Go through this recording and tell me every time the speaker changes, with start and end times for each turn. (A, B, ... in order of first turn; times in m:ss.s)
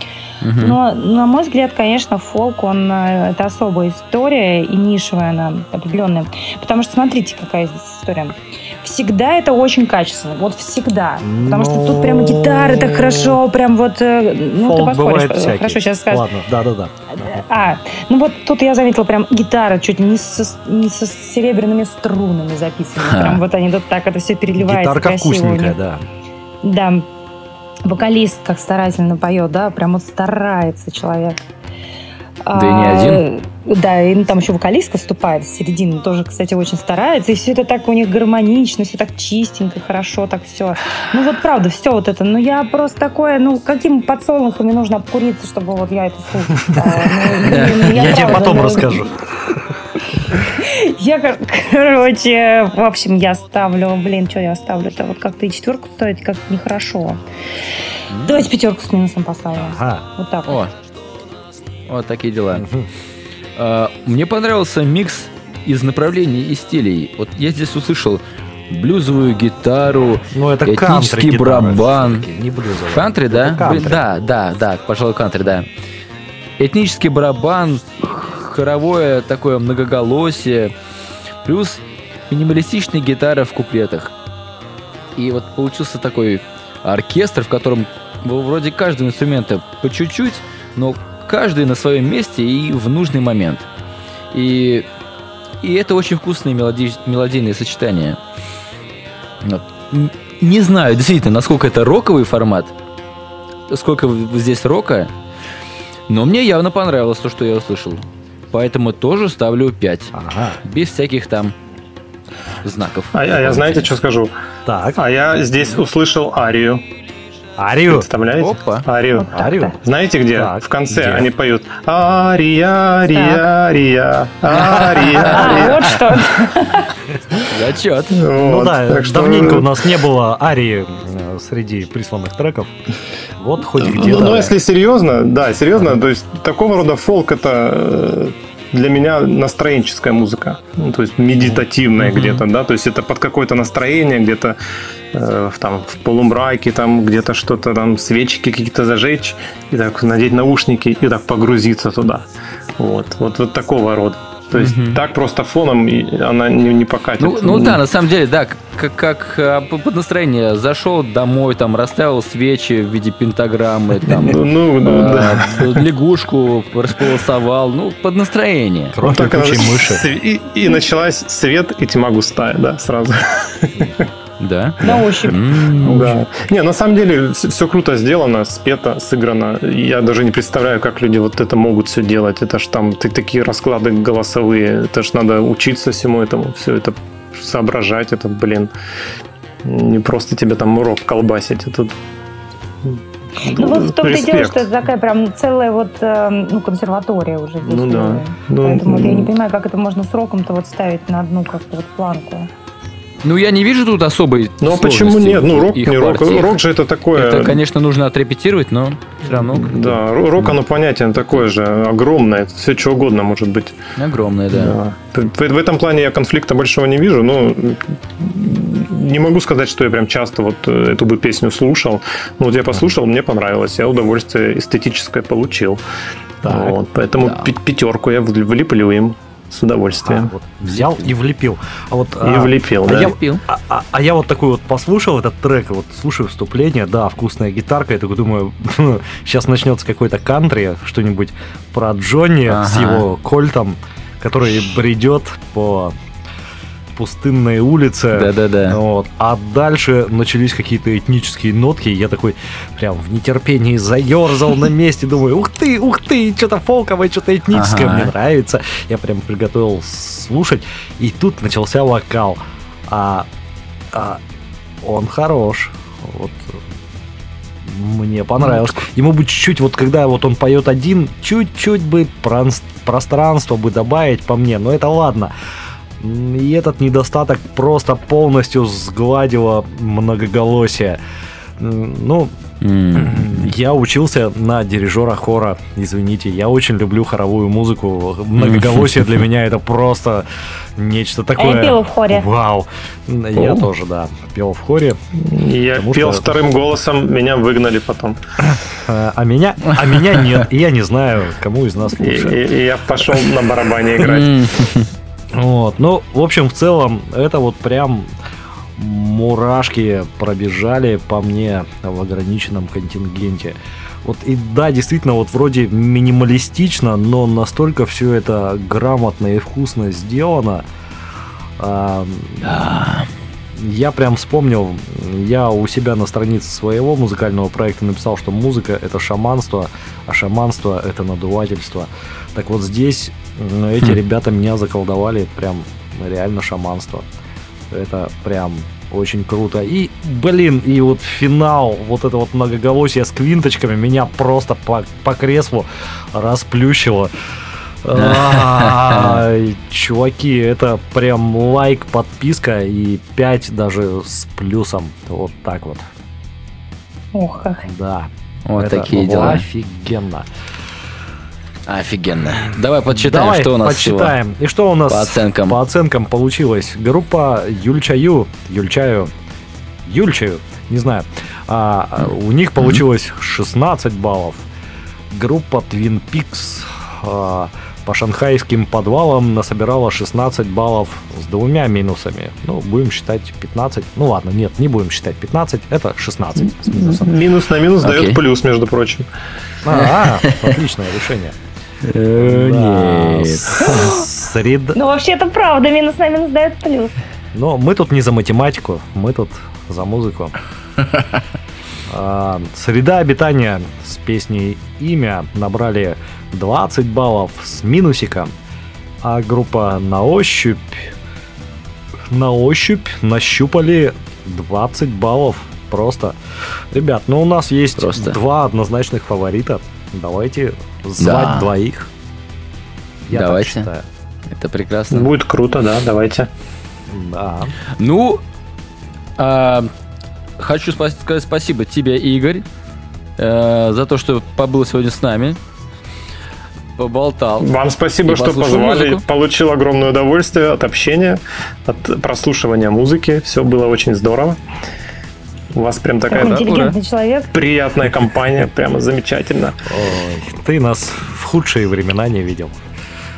0:00.4-0:00.8 A
0:00.6-0:16.2 B
0:11.2-0:13.4 C
0:14.6-0:17.4 C
0:17.2-0:25.8 B
0:23.0-0:23.4 A
0:24.6-0:26.0 C
0:26.6-0:27.0 B
0:27.8-0:31.4 B
0:32.4-0:49.1 B
0:32.5-0:33.2 A
0:47.5-0:48.3 A
0:47.5-0:49.1 C
0:50.3-0:57.2 B
0:58.1-0:58.4 A
0:58.2-1:00.6 B
0:59.5-1:00.0 C
1:00.5-1:00.7 A
1:01.9-1:02.6 A
1:02.5-1:02.9 C
1:03.6-1:12.3 A
1:10.3-1:14.0 C
1:12.9-1:15.7 A
1:16.6-1:20.7 A
1:21.4-1:24.1 A
1:25.2-1:33.7 A
1:34.3-1:34.9 A
1:35.6-1:38.2 A
1:39.4-1:42.7 A
1:43.7-1:45.1 A
1:46.1-1:51.5 A
1:50.1-1:50.6 C
1:52.6-1:53.9 A
1:53.1-1:54.3 D
1:54.6-1:55.0 C
1:55.0-1:56.8 D
1:57.6-1:58.1 C
1:57.9-2:06.2 D
1:58.4-1:58.9 A
1:59.2-1:59.7 B
1:59.3-1:59.8 C
2:00.3-2:01.3 C
2:03.1-2:03.5 B
2:04.5-2:05.7 A
2:05.0-2:06.9 B
2:07.4-2:08.2 A
2:08.1-2:09.9 D
2:08.4-2:12.7 C
2:13.4-2:14.6 C
2:13.8-2:24.6 D
2:22.0-2:22.4 A
2:25.1-2:32.2 D
2:32.8-2:37.8 D
2:34.5-2:35.0 A
2:37.2-2:49.0 A
2:44.2-2:45.8 D
2:48.9-2:50.0 C
2:49.0-2:53.9 D
2:54.4-2:56.2 A
2:54.8-2:55.4 B
2:54.9-3:08.7 D
3:09.6-3:11.9 D
3:12.8-3:14.7 D
3:13.5-3:22.5 B
3:17.6-3:19.3 D
3:23.2-3:26.6 A
3:24.6-3:27.6 D
3:27.1-3:30.6 A
3:29.3-3:33.8 D
3:34.0-3:34.8 A
3:34.5-3:45.8 D
3:46.4-3:50.3 D
3:46.5-3:46.7 C
3:47.2-3:47.5 A
3:49.9-4:05.9 C
3:50.6-3:51.1 A
3:52.2-3:53.1 D
3:52.9-3:53.4 A
4:02.4-4:03.0 A
4:06.9-4:23.3 C
4:08.1-4:08.8 A
4:17.5-4:18.1 A
4:23.9-4:24.2 C
4:24.8-4:26.6 C
4:27.6-4:35.3 C
4:28.4-4:28.8 A
4:36.0-4:41.0 C
4:41.6-4:42.3 C
4:42.6-4:43.5 A
4:42.9-4:50.2 C
4:48.4-4:49.2 A
4:50.8-4:55.0 C
4:51.4-4:52.3 B
4:55.2-4:58.2 D
4:55.7-4:56.3 C
4:58.8-5:02.4 C
5:02.0-5:04.5 D
5:04.0-5:04.9 A
5:05.3-5:08.1 C
5:08.8-5:20.6 C
5:21.6-5:22.5 C
5:22.4-5:23.1 A
5:23.6-5:37.0 C
5:37.7-5:47.1 C
5:47.8-5:55.8 C
5:47.9-5:49.2 A
5:57.1-5:57.6 B
5:57.6-6:00.2 C
5:58.5-5:59.4 A
6:01.7-6:04.1 A
6:02.9-6:09.1 C
6:04.9-6:05.6 A
6:09.8-6:14.4 C
6:15.1-6:27.1 C
6:26.7-6:29.1 D
6:27.8-6:28.2 A
6:29.6-6:31.4 C
6:29.7-6:30.5 A
6:31.8-6:33.8 A
6:32.1-6:34.8 C
6:34.7-6:37.0 B
6:37.3-6:40.3 C
6:41.9-6:48.3 C
6:49.0-6:50.9 C
6:52.1-6:56.2 C
6:56.7-7:01.9 C
6:57.8-6:58.2 A
7:01.0-7:01.5 A
7:03.1-7:03.8 C
7:03.1-7:03.7 A
7:04.3-7:05.1 A
7:04.9-7:06.3 D
7:06.9-7:07.6 C
7:07.7-7:08.2 A
7:09.2-7:09.7 A
7:10.4-7:12.4 A
7:13.2-7:15.4 A
7:16.8-7:17.5 A
7:17.4-7:24.4 D
7:18.0-7:19.0 A
7:25.5-7:26.8 D
7:26.1-7:27.3 B
7:27.3-7:29.6 D
7:29.6-7:32.6 C